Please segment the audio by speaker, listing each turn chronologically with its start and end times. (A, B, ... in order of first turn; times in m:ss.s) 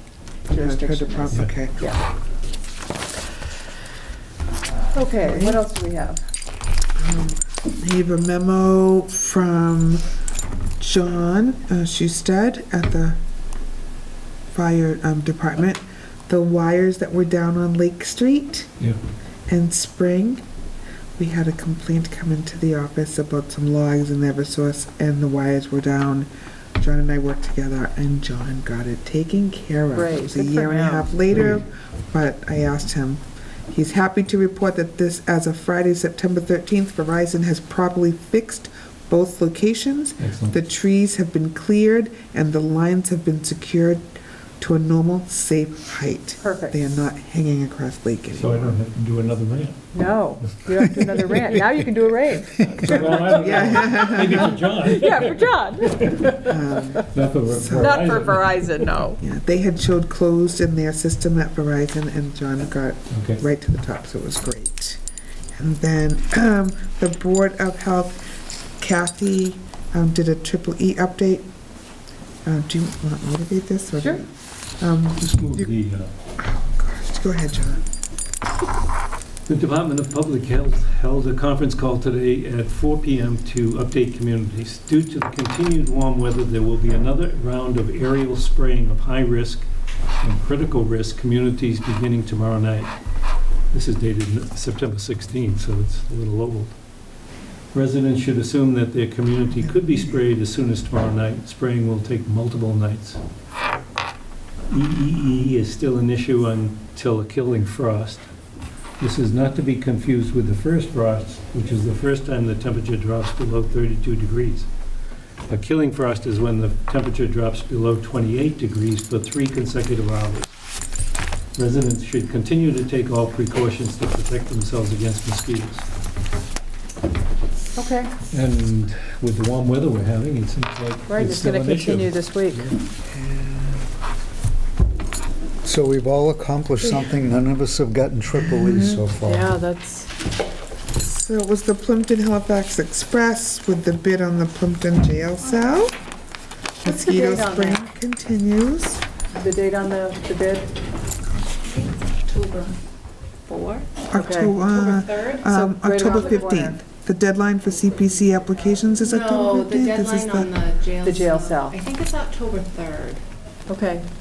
0:00.5-0:02.0 A
0:00.5-0:02.0 B
0:04.9-0:06.2 A
0:05.2-0:05.6 B
0:07.0-0:10.0 B
0:10.8-0:13.2 B
0:14.5-0:18.7 B
0:19.5-0:20.4 B
0:21.2-0:48.8 B
0:29.9-0:31.2 A
0:40.2-0:40.6 C
0:46.4-0:46.8 A
0:48.3-0:49.8 C
0:49.9-0:56.4 A
0:52.8-0:56.4 C
0:52.9-0:54.6 B
0:56.2-0:58.4 B
0:57.0-0:58.9 C
0:57.8-0:59.2 A
0:59.2-1:05.0 B
1:03.1-1:03.4 C
1:05.6-1:08.2 B
1:08.8-1:11.5 B
1:12.5-1:15.7 B
1:15.2-1:16.1 C
1:16.4-1:17.8 B
1:19.5-1:29.7 C
1:30.2-1:32.9 C
1:33.7-1:36.8 C
1:37.7-1:43.2 C
1:39.6-1:40.2 B
1:44.7-1:48.3 C
1:49.0-1:54.7 C
1:55.5-2:00.6 C
2:01.6-2:05.9 C
2:07.8-2:08.1 A
2:08.3-2:12.8 C
2:11.1-2:12.7 A
2:13.1-2:13.9 B
2:15.6-2:19.5 D
2:18.8-2:20.1 A
2:21.0-2:26.0 B
2:26.8-2:29.0 B
2:26.8-2:27.8 A
2:29.4-2:30.7 A
2:31.6-2:32.8 E
2:33.5-2:33.9 E
2:34.1-2:40.5 B
2:34.2-2:34.6 A
2:34.6-2:35.5 E
2:35.5-2:36.8 A
2:36.2-2:36.5 E
2:39.0-2:43.2 E
2:41.0-2:41.8 A
2:43.7-2:44.1 A